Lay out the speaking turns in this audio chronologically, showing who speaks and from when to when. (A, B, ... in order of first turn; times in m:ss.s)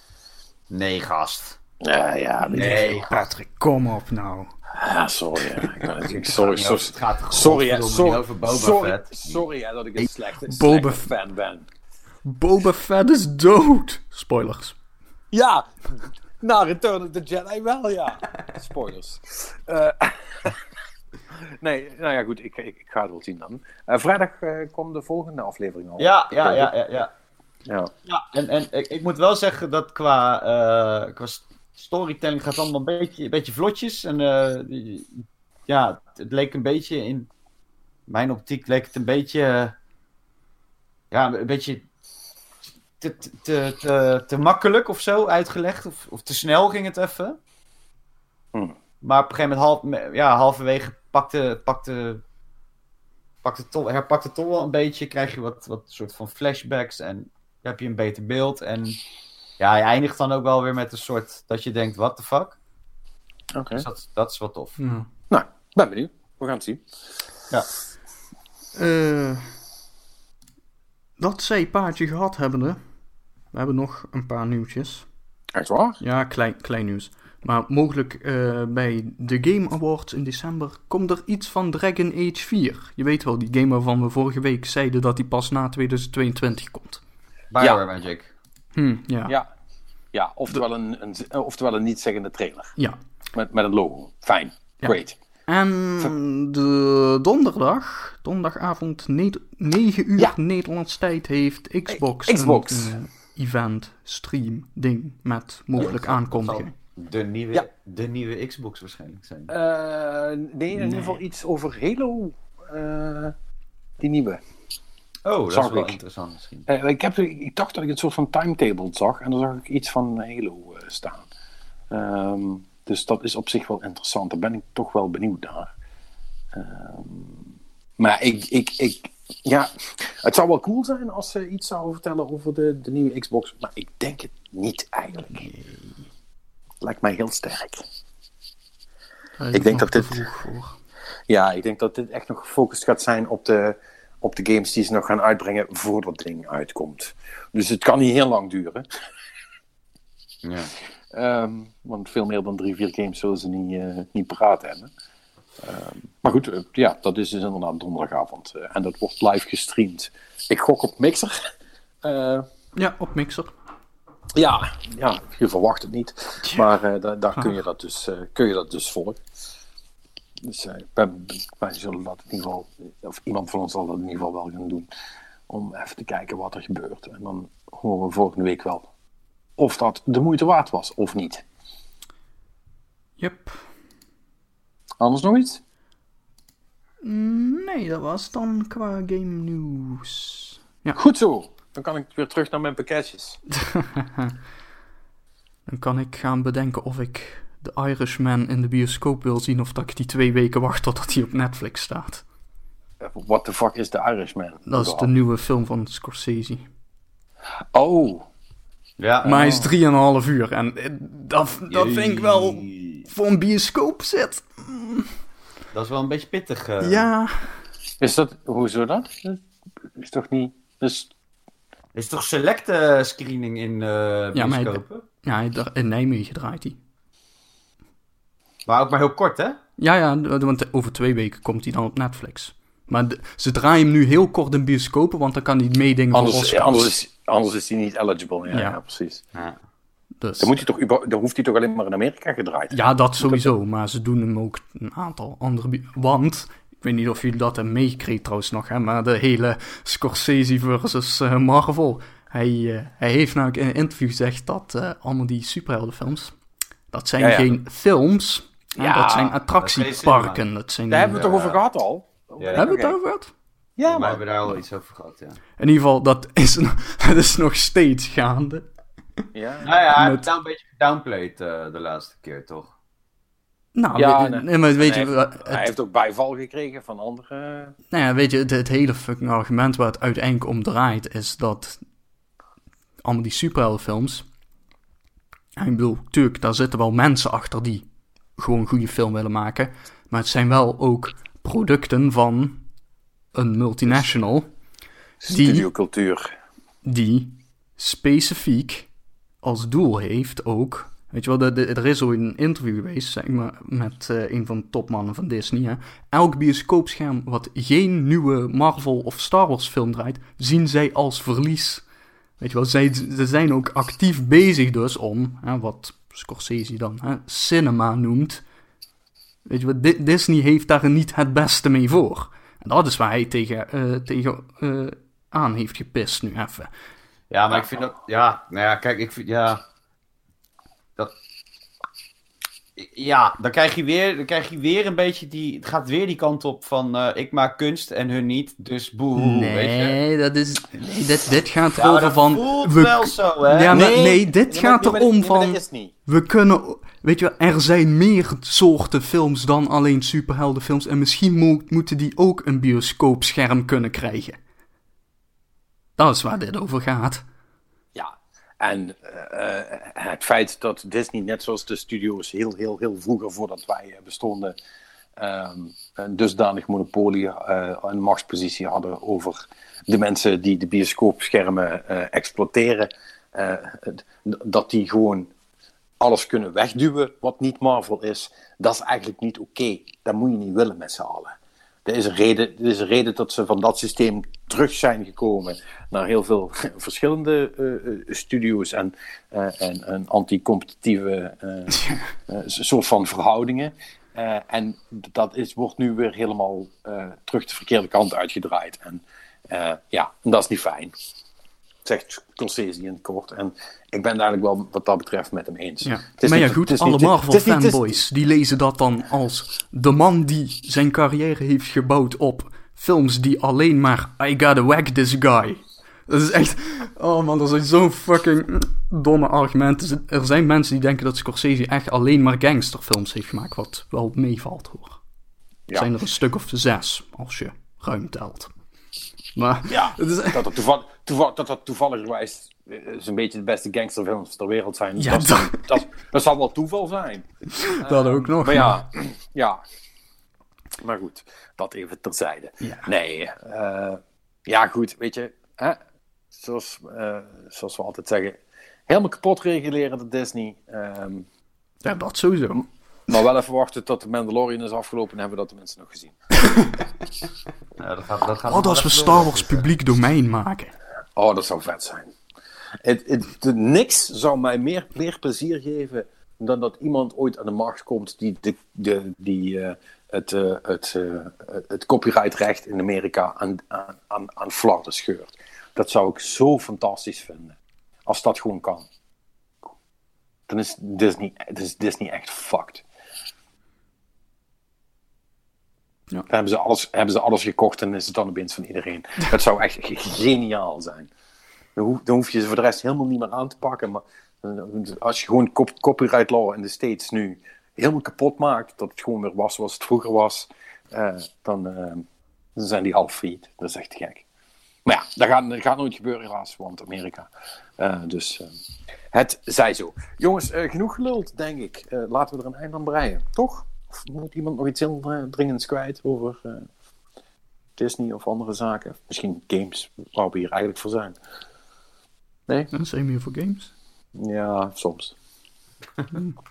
0:00.7-0:01.6 A
0:01.8-0:03.0 B
0:02.5-0:03.2 A
0:02.5-0:04.5 C
0:04.7-0:11.7 B
0:06.1-0:09.4 A
0:10.4-0:11.1 C
0:12.2-0:14.8 C
0:15.3-0:20.6 B
0:21.3-0:26.7 B
0:26.0-0:27.1 A
0:27.6-0:27.9 B
0:28.0-0:37.3 A
0:38.1-0:39.7 A
0:41.1-0:41.8 A
0:43.0-0:47.4 A
0:49.0-0:52.2 A
0:53.4-0:59.0 A
0:59.6-1:02.6 A
1:03.5-1:03.9 B
1:03.7-1:04.8 A
1:04.8-1:05.1 C
1:05.3-1:06.9 B
1:08.8-1:09.5 C
1:11.2-1:12.8 C
1:13.5-1:15.1 C
1:15.5-1:16.0 B
1:16.0-1:27.0 C
1:27.5-1:28.3 A
1:28.7-1:29.3 C
1:30.1-1:32.7 B
1:33.3-1:35.2 B
1:34.8-1:46.7 C
1:41.9-1:42.9 B
1:45.8-1:49.5 A
1:49.5-1:53.3 B
1:50.7-1:51.2 C
1:54.0-1:54.4 B
1:55.2-1:56.7 A
1:55.5-1:56.0 B
1:56.7-2:01.3 B
2:01.9-2:05.7 B
2:06.5-2:15.5 B
2:15.4-2:16.0 C
2:16.8-2:17.8 B
2:19.4-2:20.8 C
2:19.5-2:20.2 B
2:21.3-2:28.8 B
2:30.4-2:30.7 A
2:31.1-2:34.9 B
2:35.6-2:41.4 B
2:42.0-2:42.4 B
2:42.8-2:43.5 C
2:44.3-2:49.2 B
2:46.4-2:46.7 C
2:50.4-2:54.9 B
2:55.5-2:58.9 B
2:59.6-3:01.4 B
3:03.2-3:03.6 C
3:05.0-3:05.6 B
3:07.0-3:11.0 C
3:11.0-3:13.4 B
3:13.6-3:14.3 C
3:15.7-3:22.2 C
3:23.0-3:25.1 B
3:24.6-3:26.7 C
3:27.7-3:28.3 B
3:29.0-3:29.4 A
3:29.2-3:35.1 C
3:29.2-3:29.7 B
3:31.7-3:33.1 A
3:35.7-3:37.1 A
3:36.8-3:37.6 C
3:38.0-3:41.1 B
3:41.9-3:45.0 A
3:44.3-3:46.8 C
3:48.6-3:49.6 A
3:49.8-3:56.9 C
3:56.1-3:59.2 B
3:58.5-3:58.8 C
4:00.2-4:00.6 C
4:00.4-4:03.5 B
4:02.7-4:16.4 C
4:16.9-4:21.2 C
4:17.2-4:17.6 B
4:18.8-4:19.4 B
4:19.6-4:20.4 A
4:20.9-4:23.0 B
4:21.1-4:21.6 A
4:22.4-4:22.7 A
4:22.5-4:23.3 C
4:23.8-4:24.2 B
4:23.8-4:25.4 A
4:25.6-4:28.7 C
4:29.3-4:29.7 B
4:29.6-4:32.7 A
4:29.9-4:30.2 C
4:33.7-4:35.7 C
4:33.9-4:37.8 B
4:37.9-4:41.8 C
4:43.0-4:44.2 C
4:45.6-4:52.6 C
4:53.3-4:54.5 C
4:55.2-4:56.3 B
4:55.3-4:55.7 C
4:56.8-4:58.9 C
4:59.4-5:11.8 C
5:12.4-5:18.4 C
5:19.4-5:26.7 C
5:27.3-5:29.6 A
5:32.8-5:40.0 A
5:39.2-5:54.4 C
5:41.8-5:43.9 A
5:43.7-5:45.9 B
5:56.0-5:57.2 C
5:57.9-6:04.6 B
6:05.2-6:15.3 B
6:16.0-6:21.3 B
6:21.8-6:40.9 B
6:31.7-6:32.1 C
6:41.8-6:48.0 B
6:45.8-7:05.0 C
7:05.7-7:08.5 C
7:09.3-7:10.4 C
7:09.7-7:19.6 B
7:15.0-7:15.8 C
7:17.5-7:18.8 C
7:20.8-7:25.8 B
7:22.6-7:22.9 C
7:26.3-7:31.3 B
7:31.8-7:32.7 C
7:33.1-7:36.2 B
7:36.5-7:36.7 C
7:37.8-7:39.7 A
7:38.5-7:40.7 C
7:41.2-7:42.1 B
7:42.8-7:58.9 B
8:00.5-8:02.8 B
8:06.3-8:11.1 B
8:11.8-8:22.0 B
8:22.6-8:24.2 B
8:24.8-8:28.5 B
8:29.1-8:36.7 B
8:37.8-8:41.2 B
8:42.7-8:43.7 C
8:44.2-8:45.1 B